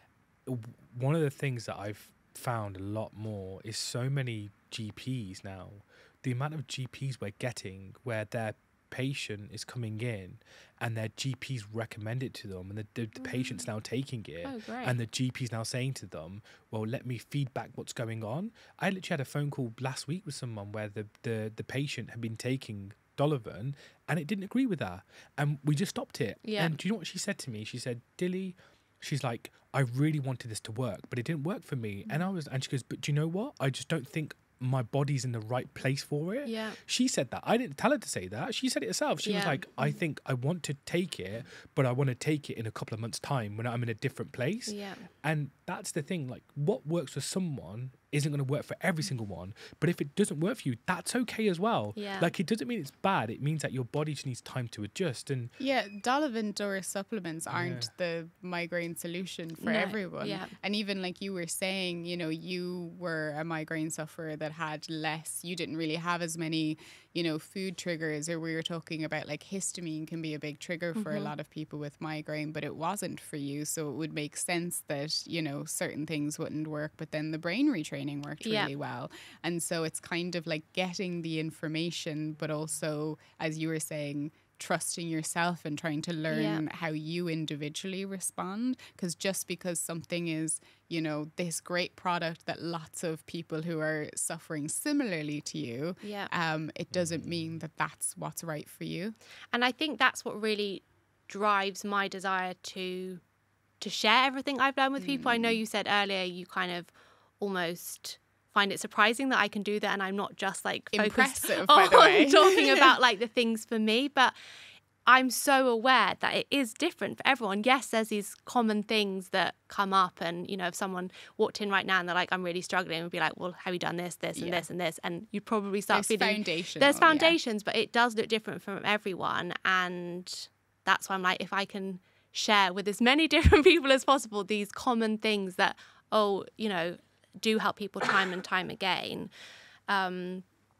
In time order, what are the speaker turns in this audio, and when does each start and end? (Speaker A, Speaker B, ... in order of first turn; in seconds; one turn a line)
Speaker A: 0.5-55.5
Speaker B: 14.4-14.9
Speaker B: 26.4-26.8
Speaker B: 36.5-36.8
Speaker B: 39.2-39.6
Speaker B: 44.7-45.1
Speaker B: 52.0-52.3
Speaker C: 55.6-99.2
Speaker A: 57.5-57.9
Speaker B: 59.6-60.5
Speaker B: 71.0-71.3
Speaker B: 78.4-78.7
Speaker B: 86.3-86.6
Speaker B: 96.0-96.3
Speaker A: 97.0-97.3
Speaker B: 99.5-103.2
Speaker B: 103.8-114.3
Speaker C: 105.0-105.6
Speaker C: 110.9-113.0
Speaker B: 115.1-139.3
Speaker C: 124.4-124.7
Speaker C: 125.9-127.4
Speaker B: 139.9-140.4